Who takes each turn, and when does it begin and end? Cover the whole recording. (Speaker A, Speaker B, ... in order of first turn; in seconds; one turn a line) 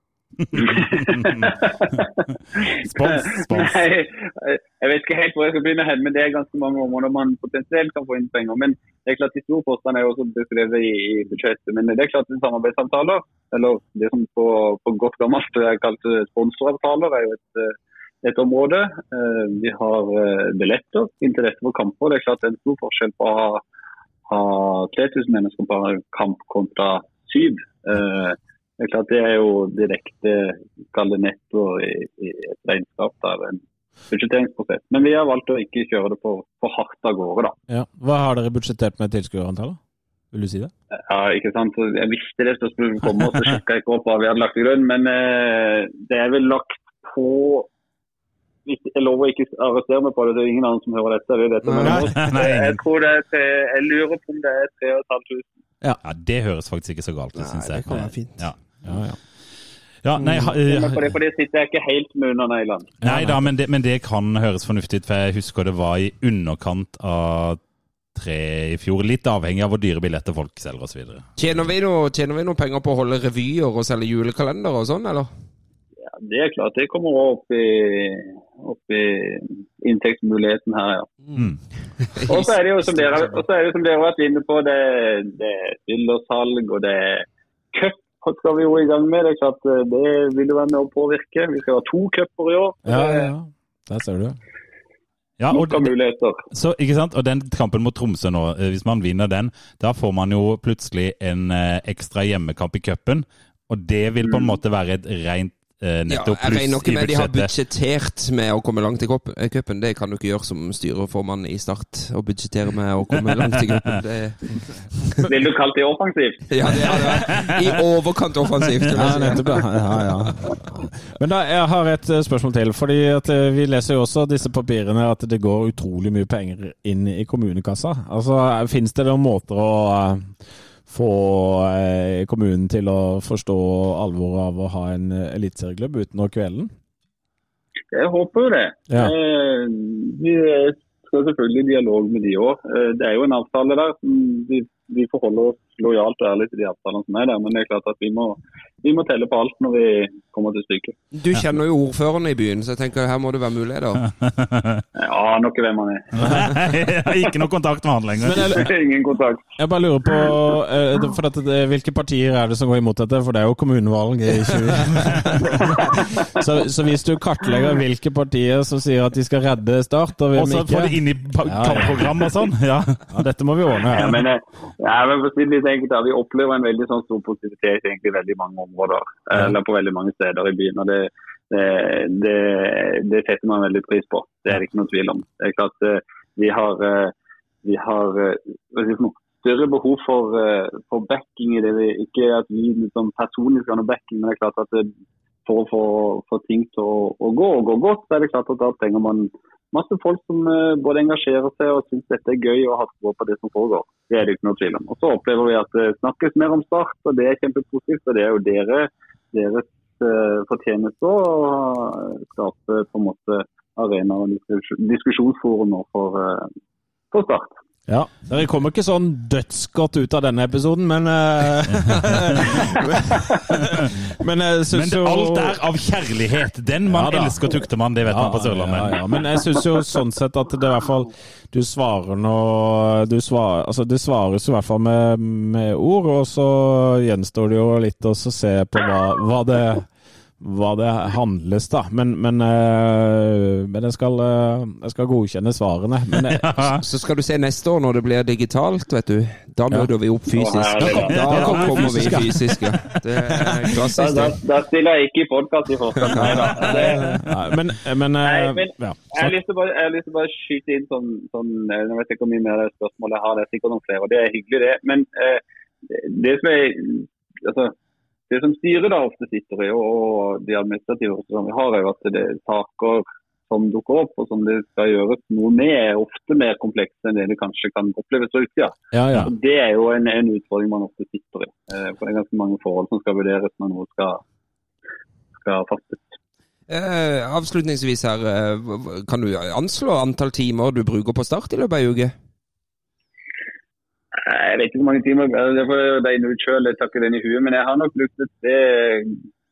Speaker A: 0.4-1.5
Speaker B: 0.5-23.6
Speaker A: 2.8-3.8
Speaker B: 24.3-37.5
Speaker C: 37.7-39.8
Speaker C: 40.3-40.7
Speaker B: 41.1-47.7
Speaker B: 48.6-55.5
Speaker D: 51.6-52.1
Speaker A: 51.8-52.8
Speaker A: 56.0-58.6
Speaker D: 57.4-58.5
Speaker C: 58.8-59.2
Speaker A: 60.0-61.0
Speaker D: 60.2-60.4
Speaker B: 60.5-62.9
Speaker C: 63.0-63.5
Speaker A: 63.0-67.6
Speaker A: 68.1-71.3
Speaker D: 71.4-75.3
Speaker B: 76.2-81.1
Speaker D: 82.1-82.5
Speaker B: 82.3-93.3
Speaker C: 92.8-94.3
Speaker A: 95.4-95.9
Speaker B: 95.5-96.4
Speaker A: 96.5-107.5
Speaker B: 104.3-104.5
Speaker D: 106.1-114.4
Speaker B: 115.2-116.5
Speaker D: 116.5-119.6
Speaker A: 117.3-117.6
Speaker A: 118.8-119.2
Speaker C: 118.9-130.3
Speaker C: 130.9-136.7
Speaker B: 137.9-150.9
Speaker D: 151.1-154.0
Speaker A: 154.1-154.8
Speaker B: 155.0-156.4
Speaker A: 156.2-158.6
Speaker C: 158.2-158.7
Speaker B: 158.4-159.5
Speaker C: 159.6-172.1
Speaker A: 170.3-173.1
Speaker C: 173.1-174.2
Speaker B: 173.9-194.9
Speaker B: 195.4-216.5
Speaker B: 217.1-217.5
Speaker C: 217.9-225.6
Speaker A: 221.8-222.7
Speaker A: 223.5-223.9
Speaker A: 224.7-229.0
Speaker C: 226.9-227.4
Speaker C: 228.0-239.9
Speaker C: 240.4-246.7
Speaker A: 246.2-246.8
Speaker D: 246.8-254.4
Speaker B: 250.3-251.5
Speaker A: 250.8-252.3
Speaker C: 251.2-252.6
Speaker B: 253.9-257.1
Speaker D: 256.0-257.2
Speaker C: 257.2-259.3
Speaker B: 258.2-267.7
Speaker B: 268.3-284.2
Speaker C: 278.9-279.3
Speaker B: 285.3-286.1
Speaker D: 286.7-292.1
Speaker B: 294.1-299.2